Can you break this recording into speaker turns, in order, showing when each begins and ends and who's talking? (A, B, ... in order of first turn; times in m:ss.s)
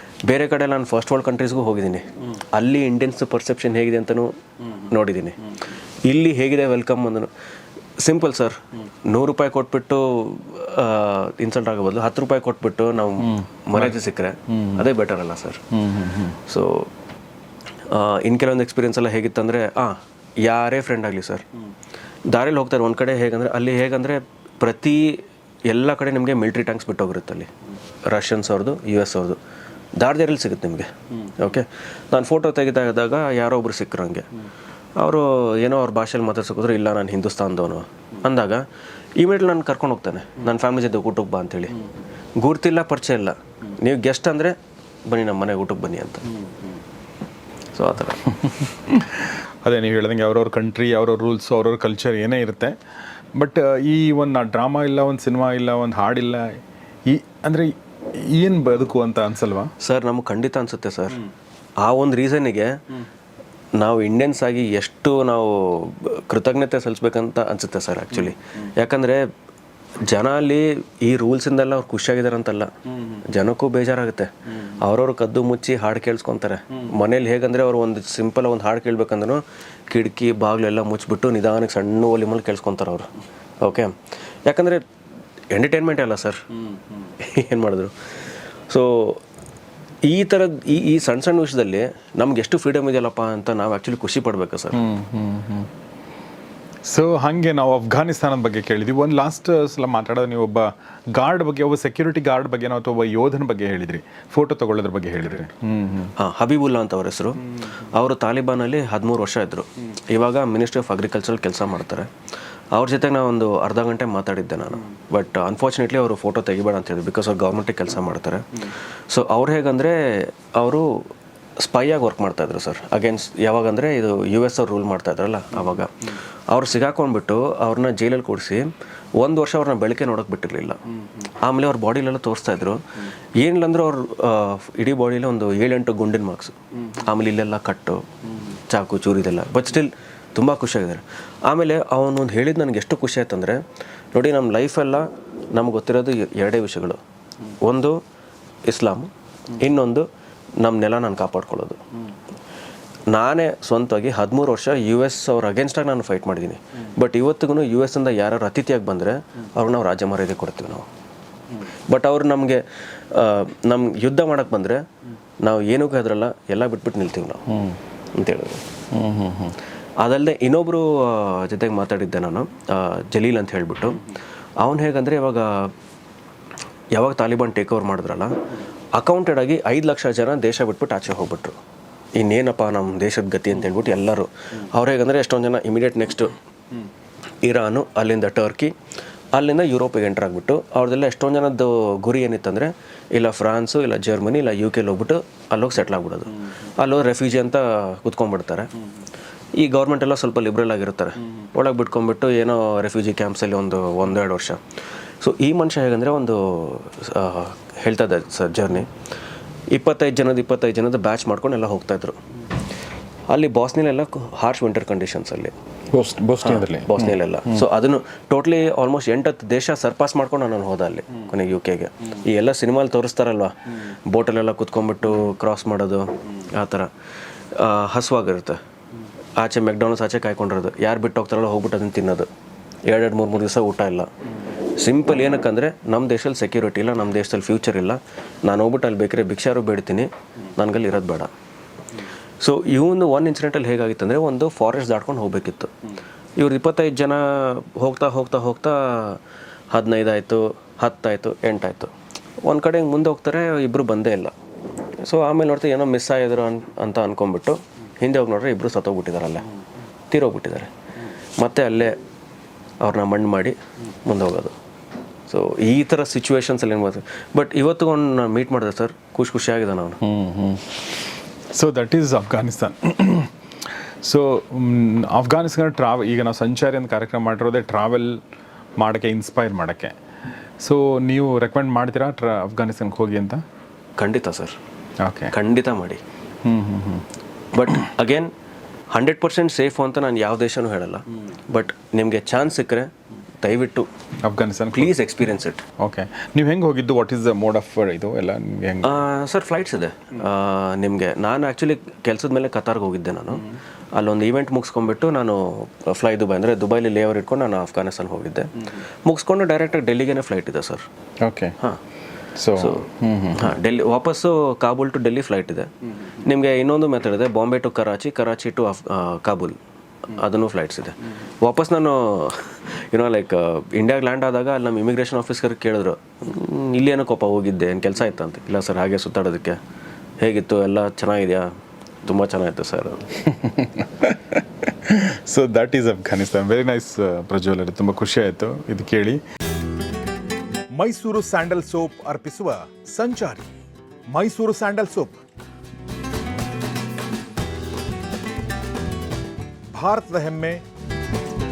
0:00.3-0:05.5 A
0:06.1-0:07.3 A
0:08.0-0:15.6 A
0:13.2-0:13.9 B
0:14.5-0:14.8 B
0:15.7-0:16.4 B
0:16.4-0:16.9 A
0:17.9-0:21.4 A
0:22.3-0:27.5 A
0:28.1-0:29.4 A
0:30.0-0:34.3 A
0:35.0-0:38.6 A
0:39.2-0:41.8 A
0:42.4-0:44.6 A
0:45.1-0:46.3 A
0:47.7-0:48.4 A
0:49.6-0:52.8 B
0:53.4-0:59.7 B
0:59.8-1:01.2 A
1:01.8-1:02.8 A
1:03.8-1:09.3 A
1:10.0-1:23.1 A
1:23.6-1:24.8 A
1:25.5-1:26.5 A
1:27.2-1:27.9 A
1:28.7-1:29.2 A
1:30.0-1:34.9 A
1:34.8-1:35.7 B
1:36.8-1:46.1 B
1:46.2-1:52.1 A
1:52.7-2:01.1 A
2:01.6-2:12.8 A
2:13.4-2:18.1 A
2:18.7-2:23.6 A
2:24.1-2:27.0 A
2:27.6-2:28.0 A
2:28.7-2:30.1 A
2:30.6-2:31.8 A
2:33.1-2:40.9 A
2:41.9-2:44.8 A
2:45.4-2:47.5 A
2:47.5-2:47.8 B
2:48.2-2:48.6 A
2:48.9-2:49.6 B
2:50.0-2:54.1 A
2:54.6-2:55.7 A
2:57.0-2:58.3 A
2:58.9-3:01.6 A
3:02.2-3:06.4 A
3:07.4-3:08.7 A
3:09.3-3:18.7 A
3:19.6-3:24.6 A
3:25.2-3:28.9 A
3:29.7-3:32.2 A
3:33.3-3:35.5 A
3:35.9-3:37.6 B
3:36.4-3:46.9 A
3:47.5-3:48.6 A
3:49.4-3:52.3 A
3:52.9-3:54.1 A
3:54.8-4:01.3 A
4:02.4-4:05.7 A
4:06.4-4:09.2 A
4:09.7-4:11.9 A
4:12.4-4:14.3 A
4:15.0-4:19.5 A
4:20.1-4:20.7 A
4:21.4-4:22.0 A
4:22.8-4:24.6 A
4:25.3-4:30.0 A
4:30.0-4:30.8 B
4:31.5-4:33.3 B
4:34.0-4:38.2 B
4:38.8-4:39.9 B
4:40.6-4:43.4 B
4:44.0-4:44.6 A
4:45.0-4:45.3 B
4:45.3-4:46.0 A
4:46.4-4:47.0 B
4:47.5-4:48.3 A
4:48.9-4:52.9 A
4:53.4-4:53.9 A
4:54.2-4:54.9 B
4:54.7-4:55.6 A
4:55.8-4:59.0 B
4:58.8-5:03.4 A
5:04.0-5:10.8 A
5:11.2-5:11.6 B
5:12.4-5:13.5 B
5:12.6-5:15.7 A
5:16.2-5:19.6 A
5:20.1-5:29.6 A
5:30.2-5:31.5 A
5:32.0-5:33.0 A
5:33.3-5:39.2 B
5:40.8-5:43.5 C
5:44.1-5:45.2 C
5:49.8-5:50.6 C